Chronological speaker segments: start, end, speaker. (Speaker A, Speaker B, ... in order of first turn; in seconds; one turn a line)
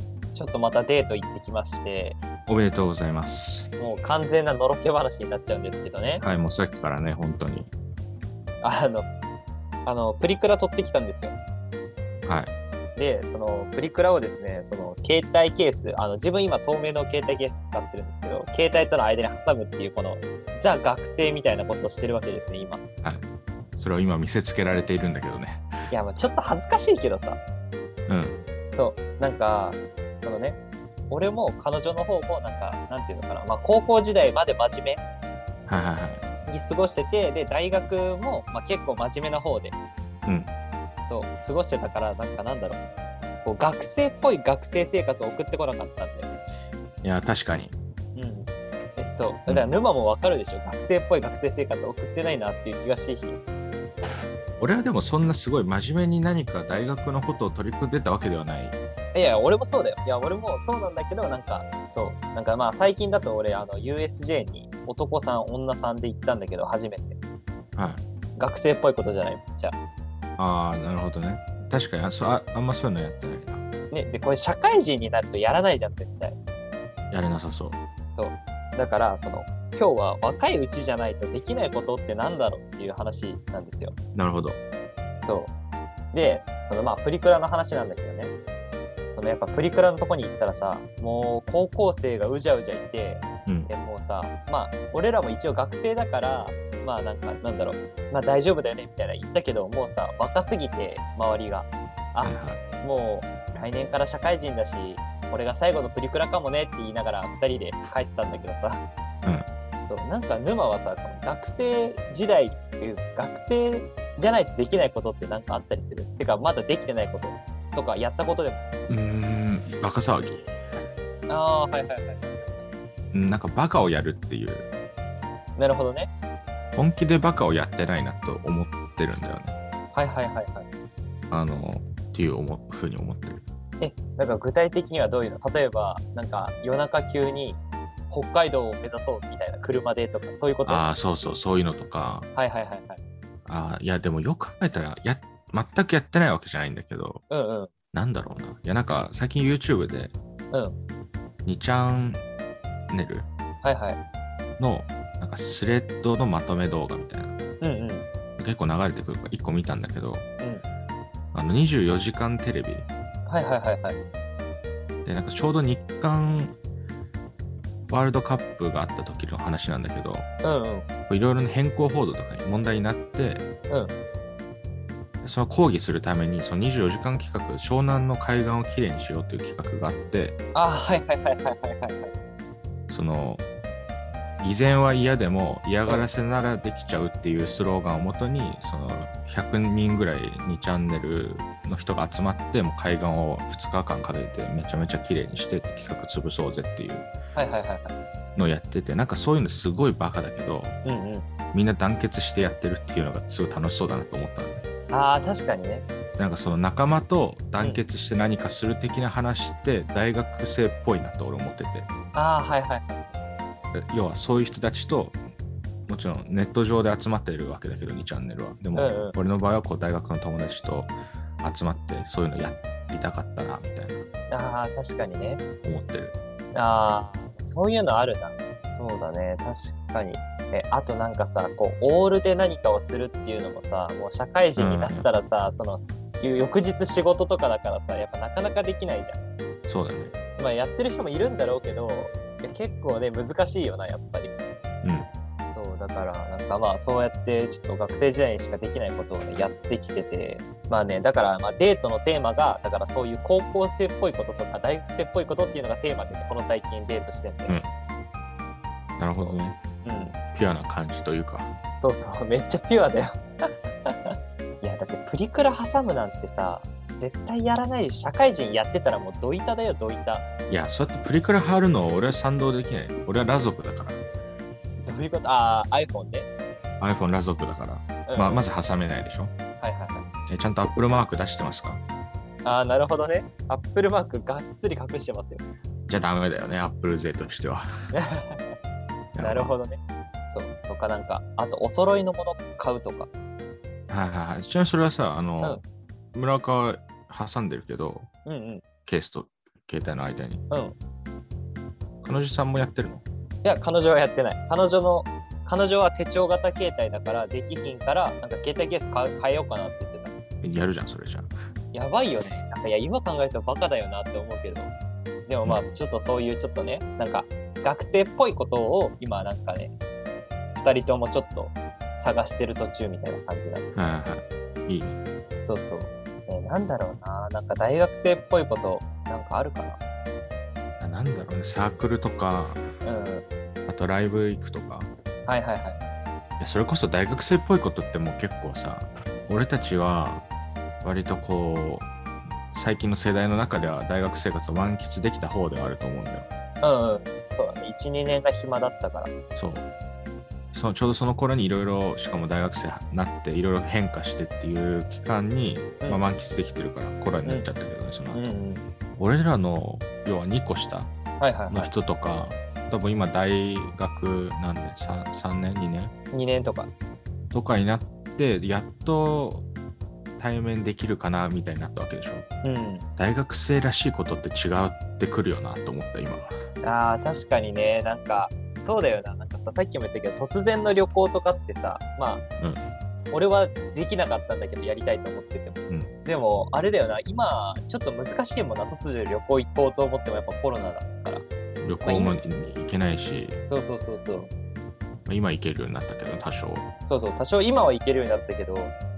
Speaker A: 0.3-2.2
Speaker B: 2.5-3.7
Speaker A: 3.8-6.2
Speaker B: 6.2-7.7
Speaker A: 8.6-9.1
Speaker A: 9.8-11.3
Speaker B: 12.3-12.5
Speaker A: 13.0-22.8
Speaker B: 23.8-25.7
Speaker A: 25.9-27.4
Speaker B: 28.1-28.4
Speaker A: 28.8-30.6
Speaker A: 31.1-35.0
Speaker B: 35.7-36.2
Speaker A: 36.5-39.8
Speaker A: 41.1-42.8
Speaker A: 43.5-46.4
Speaker B: 47.0-47.8
Speaker A: 48.1-53.4
Speaker B: 49.5-49.7
Speaker B: 54.6-58.8
Speaker A: 59.1-67.2
Speaker B: 67.8-68.0
Speaker A: 68.4-69.8
Speaker B: 70.4-73.6
Speaker A: 73.9-76.4
Speaker B: 77.1-77.8
Speaker A: 78.2-83.9
Speaker B: 84.2-84.6
Speaker A: 85.2-85.5
Speaker A: 86.1-88.3
Speaker A: 89.1-108.8
Speaker B: 102.2-102.6
Speaker A: 109.8-118.6
Speaker B: 118.9-120.5
Speaker A: 121.3-122.6
Speaker B: 123.1-124.7
Speaker A: 125.6-126.1
Speaker B: 126.8-129.6
Speaker A: 129.9-130.7
Speaker B: 131.3-133.4
Speaker A: 133.8-140.8
Speaker B: 140.7-142.3
Speaker A: 142.4-143.0
Speaker B: 143.5-147.2
Speaker A: 147.3-147.7
Speaker B: 147.9-150.2
Speaker B: 151.5-152.2
Speaker B: 152.9-153.3
Speaker A: 153.6-154.0
Speaker B: 154.6-157.3
Speaker A: 157.6-158.1
Speaker B: 158.4-160.3
Speaker B: 161.3-162.9
Speaker A: 163.3-164.0
Speaker B: 165.1-166.6
Speaker B: 167.9-170.3
Speaker A: 170.4-170.9
Speaker B: 171.1-173.4
Speaker B: 175.2-180.4
Speaker A: 180.6-182.1
Speaker B: 182.9-183.4
Speaker B: 184.4-197.1
Speaker A: 197.3-197.9
Speaker B: 198.4-200.8
Speaker A: 200.8-201.3
Speaker B: 201.5-204.6
Speaker A: 204.9-205.8
Speaker B: 206.2-211.9
Speaker A: 212.2-213.1
Speaker B: 213.7-215.2
Speaker B: 215.9-224.3
Speaker A: 218.8-219.2
Speaker A: 224.3-225.4
Speaker B: 225.6-226.2
Speaker A: 226.5-239.2
Speaker B: 234.6-235.1
Speaker B: 239.7-240.1
Speaker A: 240.4-244.3
Speaker B: 244.8-245.1
Speaker A: 245.5-257.6
Speaker B: 259.0-259.6
Speaker A: 259.2-260.2
Speaker B: 260.3-261.6
Speaker A: 261.8-270.2
Speaker B: 270.5-274.0
Speaker A: 274.8-276.3
Speaker B: 276.8-279.3
Speaker A: 278.1-278.5
Speaker A: 279.6-280.1
Speaker B: 280.3-281.8
Speaker A: 282.4-285.4
Speaker B: 285.9-287.7
Speaker A: 287.9-288.6
Speaker B: 289.1-289.6
Speaker A: 289.2-293.1
Speaker B: 293.9-295.6
Speaker B: 296.1-298.1
Speaker A: 298.3-298.6
Speaker B: 298.9-300.4
Speaker A: 300.5-300.8
Speaker B: 302.0-303.0
Speaker A: 303.4-310.1
Speaker B: 310.4-311.3
Speaker A: 311.7-314.7
Speaker A: 315.3-319.7
Speaker A: 320.6-323.7
Speaker B: 323.7-325.0
Speaker A: 325.4-329.8
Speaker B: 330.8-332.7
Speaker A: 332.8-333.3
Speaker B: 333.7-334.9
Speaker A: 335.3-335.8
Speaker B: 336.4-340.3
Speaker B: 340.8-341.9
Speaker B: 342.5-346.3
Speaker A: 346.6-349.1
Speaker B: 349.4-349.7
Speaker B: 350.5-358.4
Speaker A: 358.1-358.6
Speaker B: 359.0-360.9
Speaker A: 361.2-361.7
Speaker B: 361.5-365.9
Speaker A: 366.1-366.7
Speaker B: 367.3-369.5
Speaker B: 370.2-372.2
Speaker A: 372.4-372.9
Speaker B: 373.0-376.4
Speaker A: 376.6-382.2
Speaker B: 382.4-382.6
Speaker A: 383.1-391.2
Speaker B: 391.6-393.4
Speaker A: 391.8-392.2
Speaker A: 393.5-394.3
Speaker B: 395.1-396.7
Speaker A: 396.8-398.7